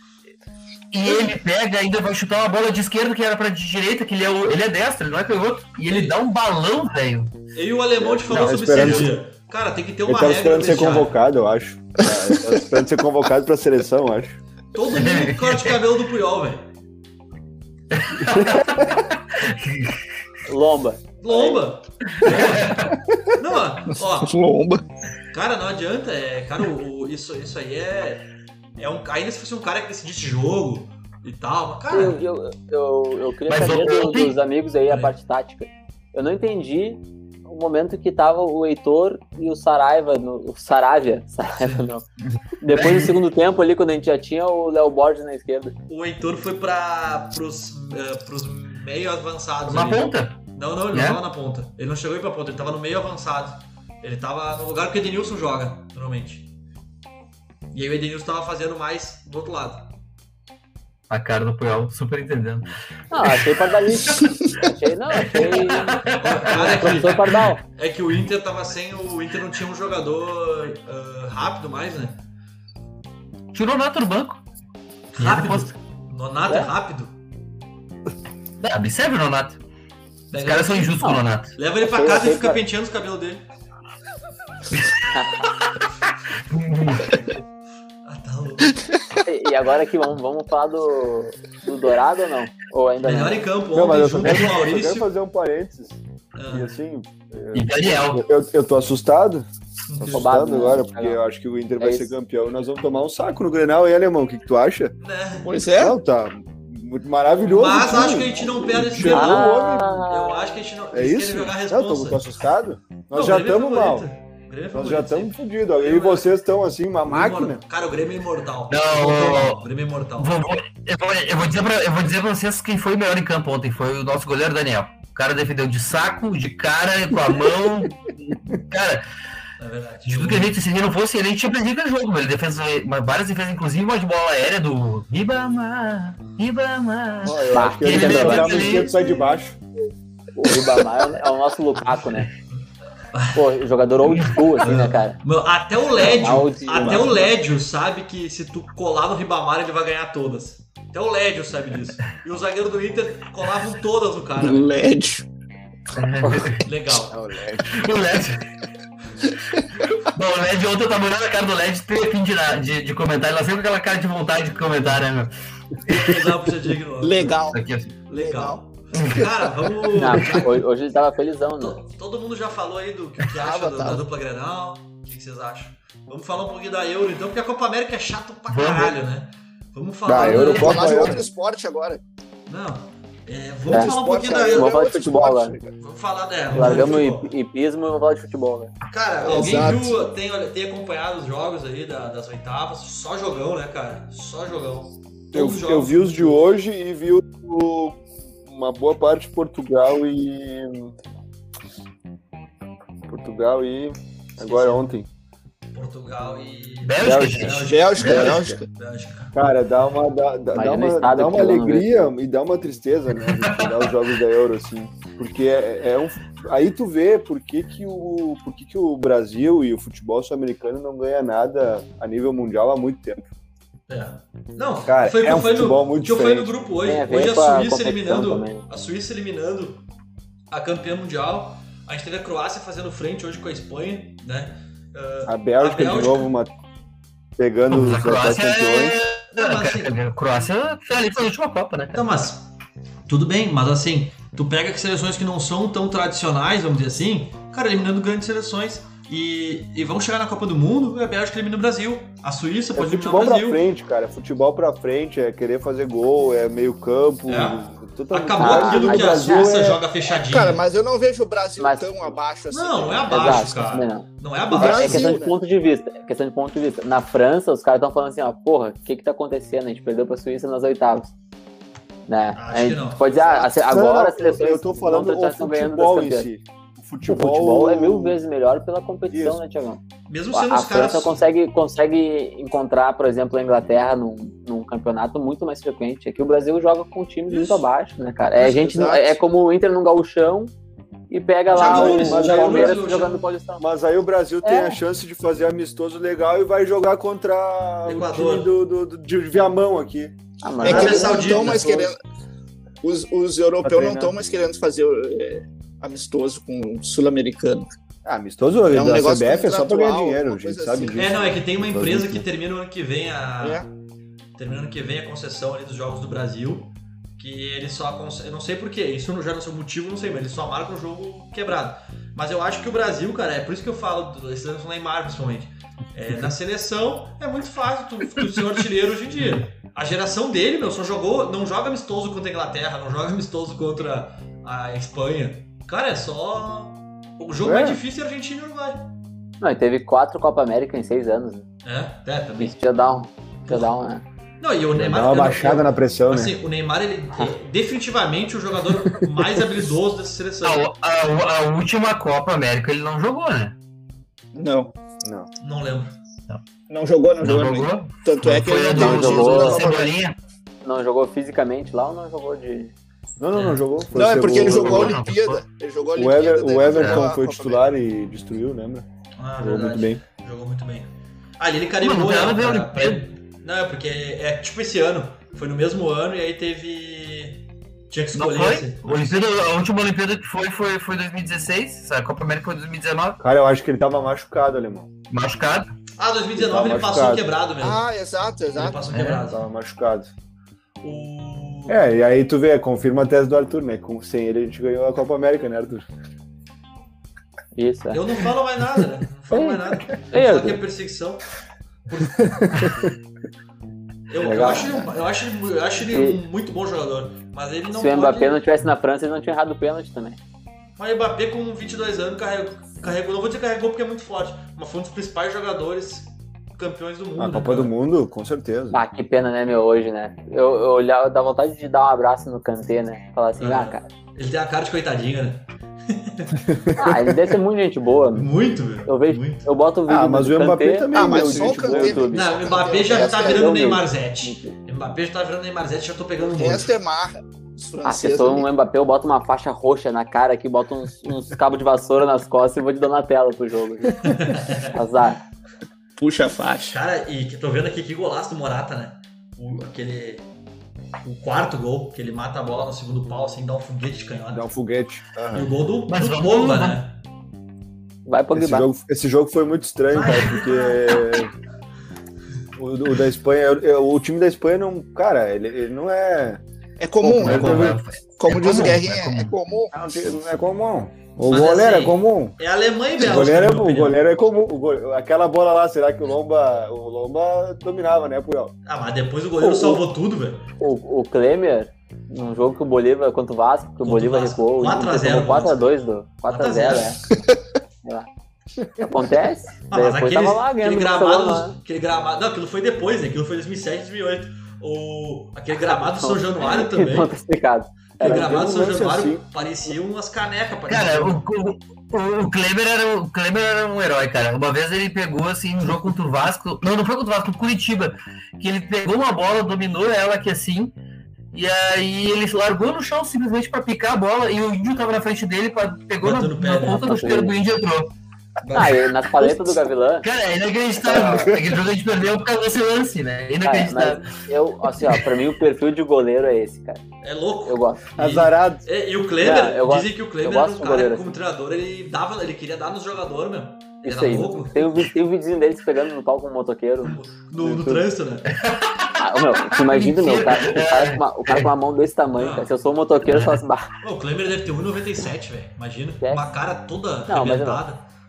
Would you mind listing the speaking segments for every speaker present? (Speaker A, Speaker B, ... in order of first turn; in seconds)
Speaker A: 0.9-7.3, 8.3-8.8, 14.9-15.8, 17.9-20.0, 22.1-23.0, 33.5-34.4, 42.3-43.2, 49.6-50.4, 50.9-51.2, 61.1-62.7, 63.2-64.2, 65.1-67.2, 73.5-74.4, 75.2-75.7, 78.6-79.6, 80.3-81.5, 84.8-85.5, 86.4-87.4, 97.5-98.2, 118.7-119.6, 120.2-129.1, 130.1-138.9, 155.9-156.6, 157.6-158.4, 160.1-165.3, 165.9-166.1, 167.5-168.0, 168.9-169.3, 178.5-178.9, 206.8-208.3, 237.7-242.0, 350.4-353.5, 357.2-360.1, 364.3-365.4, 366.7-367.1, 371.8-373.1, 378.1-383.2, 385.1-385.7, 388.9-389.2, 455.9-456.8, 467.2-469.3, 500.7-510.7, 511.3-517.9, 519.2-519.5, 520.0-524.1, 538.3-541.5, 543.1-543.4
Speaker B: 5.9-6.2, 7.5-11.2, 14.7-16.7, 21.2-24.4, 25.3-28.2, 28.8-32.2, 34.9-35.1, 41.6-41.9, 45.9-56.5, 57.7-59.9, 66.2-72.2, 75.1-77.1, 80.3-81.0, 81.6-83.4, 88.0-88.8, 93.0-95.1, 96.3-96.7, 99.9-100.3, 105.0-105.5, 107.5-112.3, 113.1-116.3, 117.0-120.3, 129.6-130.5, 138.7-139.1, 143.1-143.4, 144.6-154.7, 156.6-157.2, 165.8-167.4, 168.1-170.6, 171.6-181.1, 182.5-184.8, 185.8-187.3, 188.9-196.5, 204.4-204.9, 205.7-209.3, 223.9-229.8, 230.5-236.3, 239.3-239.9, 241.9-242.5, 243.1-253.6, 257.3-260.6, 262.5-265.2, 272.3-273.2, 280.1-281.2, 287.3-287.6, 291.5-293.2, 297.9-298.5, 300.6-301.9, 310.9-313.6, 314.4-338.8, 341.6-342.5, 344.4-350.7, 355.4-356.0, 363.3-363.6, 369.2-379.1, 386.0-387.8, 388.5-389.4, 390.8-391.9, 397.9-401.2, 401.9-402.7, 404.1-408.4, 410.8-417.7, 423.4-426.4, 428.1-429.5, 432.1-436.7, 444.0-444.8, 446.7-450.2, 451.0-454.5, 455.3-457.0, 459.9-460.9, 471.2-474.0, 478.6-480.4, 483.8-485.7, 486.3-487.0, 489.7-497.1, 498.0-501.2, 516.0-517.2, 527.0-534.8, 536.8-538.3, 542.1-542.5, 543.8-547.8
Speaker C: 8.0-9.1, 10.1-14.4, 18.2-18.9, 93.7-104.9, 105.8-110.0, 110.9-114.1, 114.7-117.6, 137.2-139.6, 157.1-157.8, 180.1-181.2, 186.6-186.9, 189.4-189.8, 195.3-200.9, 203.1-205.1, 208.0-208.6, 209.3-223.3, 224.8-226.6, 235.2-236.5, 237.4-239.0, 252.8-259.8, 273.2-278.2, 279.1-279.4, 291.6-292.8, 293.6-301.6, 303.6-304.1, 308.0-312.2, 337.4-337.8, 344.7-346.4, 355.0-355.3, 359.5-359.9, 363.2-365.0, 365.9-368.9, 369.4-370.0, 383.2-384.9, 386.4-387.3, 389.2-390.1, 391.7-395.9, 402.2-402.9, 404.3-404.7, 417.2-418.8, 426.5-427.1, 429.9-432.1, 454.3-455.5, 458.3-461.3, 462.6-466.4, 467.0-467.8, 469.7-472.4, 473.0-478.5, 498.0-499.2, 520.9-521.4, 528.0-528.6, 537.5-537.8
Speaker D: 20.4-21.6, 31.9-42.0, 42.6-45.8, 63.1-67.6, 81.8-82.6, 85.1-85.5, 89.2-93.4, 100.1-101.2, 101.8-102.1, 109.0-110.3, 137.5-138.6, 140.3-142.3, 143.3-145.2, 146.0-147.3, 169.9-171.8, 180.2-180.7, 183.7-183.9, 184.5-185.6, 186.5-188.7, 207.0-207.4, 210.5-212.1, 226.8-228.6, 258.4-259.5, 261.6-262.1, 263.1-271.1, 272.1-276.3, 277.0-279.8, 280.3-290.5, 291.1-293.6, 294.4-294.8, 300.4-301.6, 339.4-341.4, 342.4-344.0, 358.7-359.7, 360.6-362.7, 397.5-398.0, 399.3-400.6, 404.2-404.8, 405.9-406.2, 407.7-410.2, 418.7-423.9, 426.8-428.3, 428.8-434.5, 437.8-445.2, 458.1-458.7, 479.4-479.8, 480.6-487.0, 488.8-491.6, 495.6-498.4, 516.7-517.4, 518.5-520.1, 520.8-521.3, 523.4-526.8, 527.4-527.8, 529.2-531.2, 533.8-537.7, 539.0-543.7, 546.0-546.3, 547.1-547.6
Speaker E: 24.2-24.8, 105.4-106.0, 154.4-155.2, 167.0-168.6, 173.3-174.0, 180.2-182.0, 183.7-185.7, 189.2-190.0, 207.6-208.7, 260.1-263.4, 264.5-265.3, 288.4-289.1, 300.6-301.9, 302.8-307.7, 308.7-311.0, 313.4-313.7, 354.3-354.7, 356.7-359.9, 363.9-367.6, 387.6-388.8, 430.9-433.5, 436.2-438.5, 446.0-446.8, 466.8-469.7